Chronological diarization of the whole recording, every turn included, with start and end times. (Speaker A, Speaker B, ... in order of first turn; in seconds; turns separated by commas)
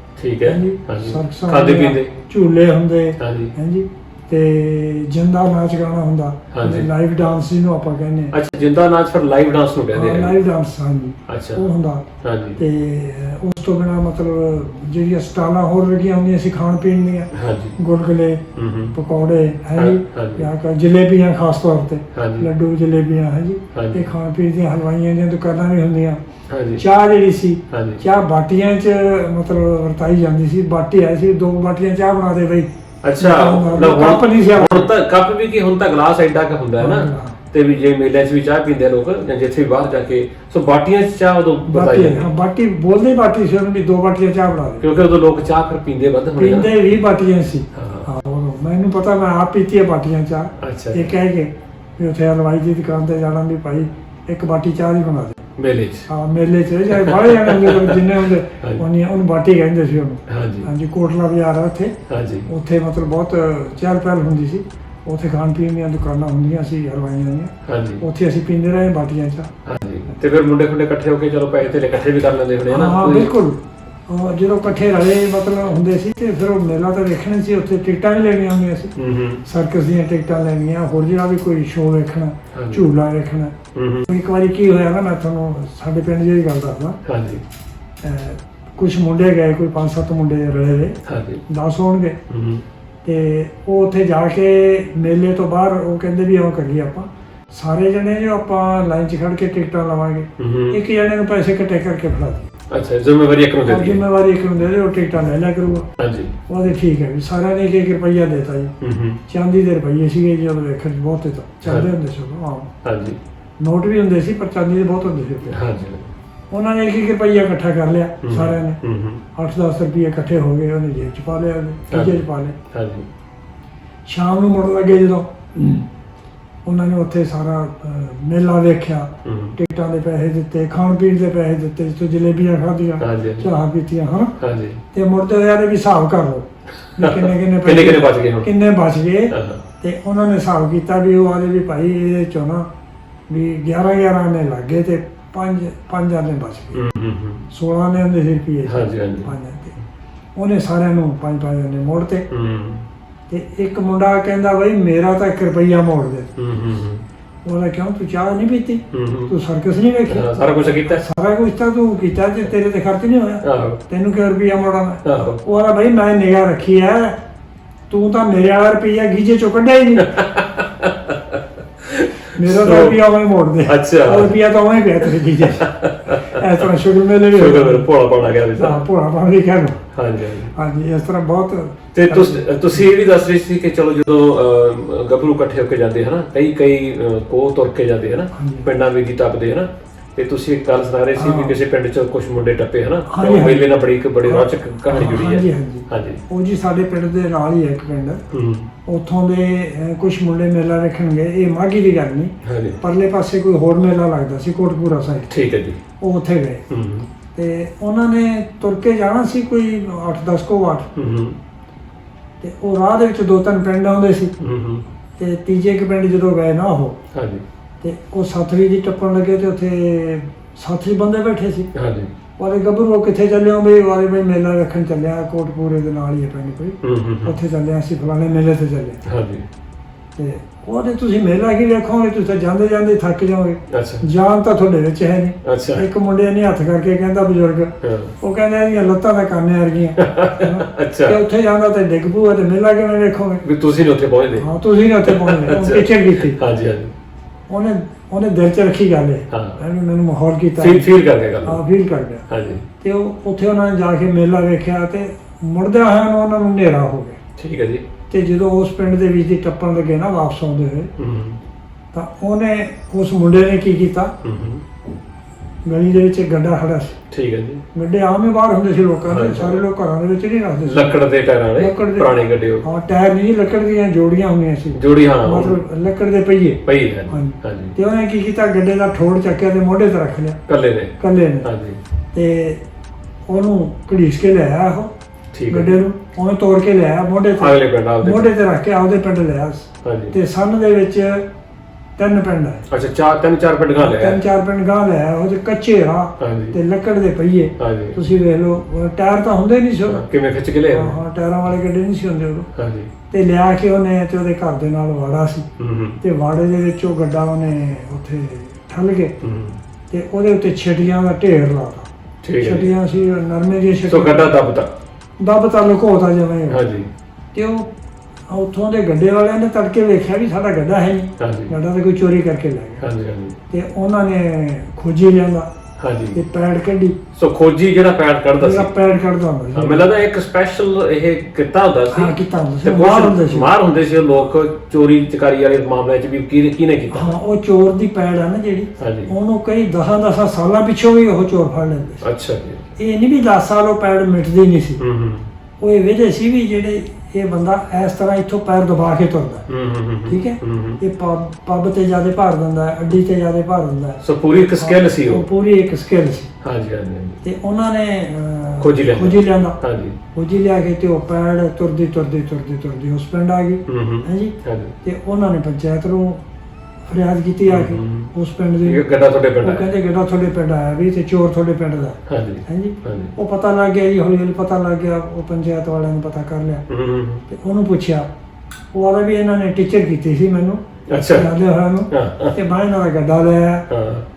Speaker A: 0.2-2.1, Speaker B: 0.4-8.3, Speaker A: 3.2-3.5, Speaker A: 6.5-6.9, Speaker A: 8.3-10.4, Speaker B: 9.9-12.0, Speaker A: 11.3-11.7, Speaker A: 12.2-12.6, Speaker B: 12.6-18.4, Speaker A: 17.3-17.8, Speaker A: 18.6-19.0, Speaker B: 18.9-26.2, Speaker A: 19.8-20.5, Speaker A: 22.1-22.5, Speaker A: 23.7-24.1, Speaker A: 26.5-26.8, Speaker B: 26.8-34.9, Speaker A: 27.7-28.0, Speaker A: 33.0-42.3, Speaker B: 36.8-37.4, Speaker B: 41.7-44.9, Speaker A: 44.8-46.7, Speaker B: 46.4-55.4, Speaker A: 47.7-48.1, Speaker A: 50.6-51.1, Speaker A: 55.6-56.1, Speaker B: 56.1-61.9, Speaker A: 57.0-58.0, Speaker A: 60.3-60.7, Speaker A: 62.1-62.5, Speaker B: 62.5-69.5, Speaker A: 67.7-68.0, Speaker A: 69.7-73.3, Speaker B: 72.7-78.9, Speaker A: 79.0-79.4, Speaker B: 79.5-83.5, Speaker A: 82.5-82.9, Speaker A: 83.8-84.1, Speaker B: 84.1-87.0, Speaker A: 87.0-87.4, Speaker B: 88.0-92.2, Speaker A: 91.1-91.4, Speaker A: 92.3-92.6, Speaker B: 93.0-102.5, Speaker A: 100.4-100.8, Speaker A: 102.7-104.0, Speaker B: 103.7-105.9, Speaker A: 106.0-106.4, Speaker B: 106.5-108.7, Speaker A: 108.8-109.2, Speaker B: 109.3-112.7, Speaker A: 112.8-113.2, Speaker B: 113.6-115.6, Speaker A: 115.5-116.1, Speaker B: 116.5-118.8, Speaker A: 118.2-119.2, Speaker B: 119.3-122.6, Speaker A: 121.9-123.1, Speaker B: 124.1-125.8, Speaker B: 126.7-134.3, Speaker A: 129.2-129.6, Speaker A: 133.0-133.5, Speaker A: 134.4-134.8, Speaker B: 134.9-136.5, Speaker B: 137.0-142.7, Speaker A: 137.0-138.5, Speaker A: 139.3-139.6, Speaker B: 143.3-146.8, Speaker A: 146.7-147.4, Speaker B: 147.5-149.8, Speaker A: 148.7-149.3, Speaker B: 150.4-152.3, Speaker A: 152.3-152.9, Speaker B: 153.3-156.3, Speaker A: 156.4-157.0, Speaker B: 157.4-167.2, Speaker A: 158.9-159.3, Speaker A: 160.1-161.0, Speaker A: 163.4-163.8, Speaker A: 165.1-165.4, Speaker B: 167.9-170.2, Speaker A: 170.0-173.0, Speaker B: 172.3-177.9, Speaker A: 173.7-174.3, Speaker A: 175.6-176.4, Speaker A: 177.3-178.8, Speaker B: 178.6-179.8, Speaker A: 179.9-180.5, Speaker B: 180.5-182.9, Speaker A: 181.9-196.2, Speaker B: 188.3-188.7, Speaker B: 191.2-191.6, Speaker B: 193.1-193.7, Speaker B: 194.2-198.2, Speaker A: 198.3-198.7, Speaker B: 198.9-205.3, Speaker A: 202.4-202.8, Speaker A: 205.3-205.8, Speaker B: 206.0-206.7, Speaker A: 206.7-207.1, Speaker B: 207.3-210.9, Speaker A: 210.9-211.4, Speaker B: 212.4-214.3, Speaker A: 214.4-214.8, Speaker B: 215.2-217.0, Speaker A: 217.1-217.4, Speaker B: 217.8-221.7, Speaker A: 221.7-222.1, Speaker B: 222.4-229.0, Speaker A: 226.8-227.4, Speaker A: 229.1-229.5, Speaker B: 230.2-243.4, Speaker A: 233.7-234.1, Speaker A: 235.4-235.9, Speaker A: 237.8-238.1, Speaker A: 240.0-241.2, Speaker A: 243.4-244.5, Speaker B: 244.4-246.4, Speaker A: 245.0-246.9, Speaker B: 247.5-250.9, Speaker A: 249.3-249.6, Speaker A: 250.6-251.6, Speaker B: 251.4-252.3, Speaker A: 252.3-252.7, Speaker B: 252.8-257.2, Speaker A: 257.4-257.9, Speaker B: 258.1-260.9, Speaker A: 261.0-261.4, Speaker B: 261.9-264.1, Speaker A: 264.2-264.6, Speaker B: 265.7-267.0, Speaker A: 267.1-267.6, Speaker B: 267.7-280.4, Speaker A: 269.1-269.6, Speaker A: 270.6-272.7, Speaker A: 274.7-275.6, Speaker A: 276.6-277.8, Speaker A: 280.5-281.8, Speaker B: 281.0-281.5, Speaker B: 282.1-282.6, Speaker B: 283.3-284.9, Speaker A: 285.3-285.8, Speaker B: 285.5-291.2, Speaker A: 287.4-288.3, Speaker A: 289.8-290.2, Speaker B: 292.0-292.7, Speaker A: 292.7-294.2, Speaker B: 293.8-300.1, Speaker A: 296.2-296.6, Speaker A: 297.6-298.0, Speaker A: 299.9-301.0, Speaker B: 300.7-302.5, Speaker A: 302.6-302.9, Speaker B: 303.1-305.4, Speaker A: 305.6-306.0, Speaker B: 306.0-309.1, Speaker A: 309.2-309.6, Speaker B: 309.9-311.9, Speaker A: 312.2-312.7, Speaker B: 312.4-314.4, Speaker A: 313.9-314.7, Speaker B: 315.2-316.6, Speaker A: 316.5-316.9, Speaker B: 317.3-317.7, Speaker B: 318.3-322.8, Speaker A: 321.2-321.6, Speaker A: 322.8-323.4, Speaker B: 323.5-325.5, Speaker A: 325.8-326.2, Speaker B: 326.1-327.0, Speaker A: 327.1-328.7, Speaker B: 328.4-329.9, Speaker A: 329.5-337.1, Speaker B: 331.9-333.5, Speaker B: 336.9-342.0, Speaker A: 338.8-339.1, Speaker A: 342.0-342.7, Speaker B: 342.8-344.8, Speaker A: 344.8-345.3, Speaker B: 345.6-349.5, Speaker A: 349.5-350.8, Speaker B: 350.1-356.3, Speaker A: 354.0-355.3, Speaker A: 356.4-357.2, Speaker B: 357.2-359.6, Speaker A: 358.6-360.0, Speaker B: 360.1-366.2, Speaker A: 363.7-364.8, Speaker B: 366.9-368.8, Speaker A: 367.5-368.1, Speaker A: 368.6-369.7, Speaker B: 369.4-376.6, Speaker A: 372.1-373.1, Speaker A: 376.7-377.2, Speaker B: 377.3-378.1, Speaker B: 378.7-380.6, Speaker A: 380.9-381.3, Speaker B: 381.1-383.7, Speaker A: 381.9-382.4, Speaker A: 383.7-384.1